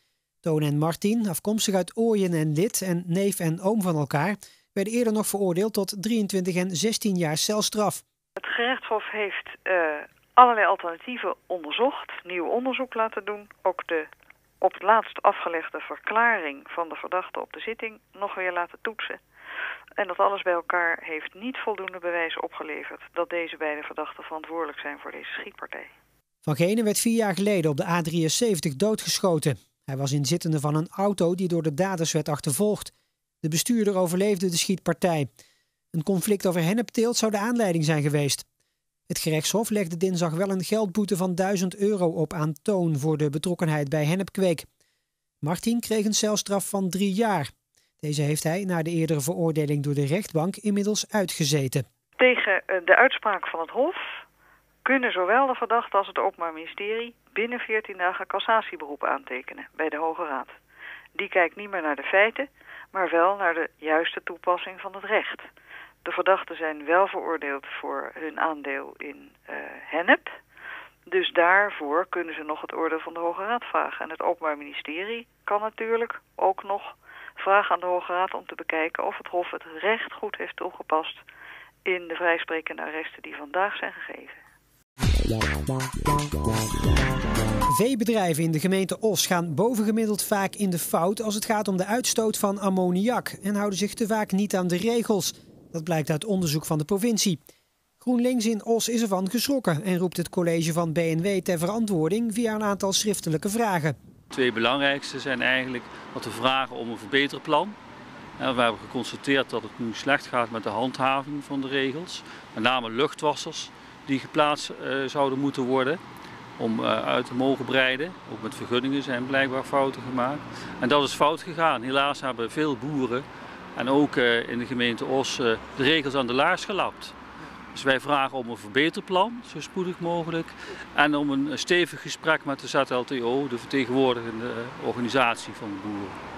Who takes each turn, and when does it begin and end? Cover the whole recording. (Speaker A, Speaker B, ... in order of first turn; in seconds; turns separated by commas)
Speaker A: 0.4-8.0, Speaker B: 8.4-14.1, Speaker B: 14.6-19.2, Speaker B: 20.0-25.9, Speaker A: 26.4-35.3, Speaker A: 35.9-38.4, Speaker A: 39.1-44.6, Speaker A: 45.4-47.5, Speaker A: 48.0-51.8, Speaker B: 52.2-54.0, Speaker B: 54.8-60.5, Speaker B: 61.1-65.4, Speaker B: 66.0-70.3, Speaker B: 71.1-81.2, Speaker B: 81.8-84.4, Speaker A: 87.7-97.4, Speaker A: 98.0-104.0, Speaker C: 104.3-107.8, Speaker C: 108.4-116.0, Speaker C: 116.6-123.2, Speaker C: 123.8-127.1, Speaker C: 127.7-136.2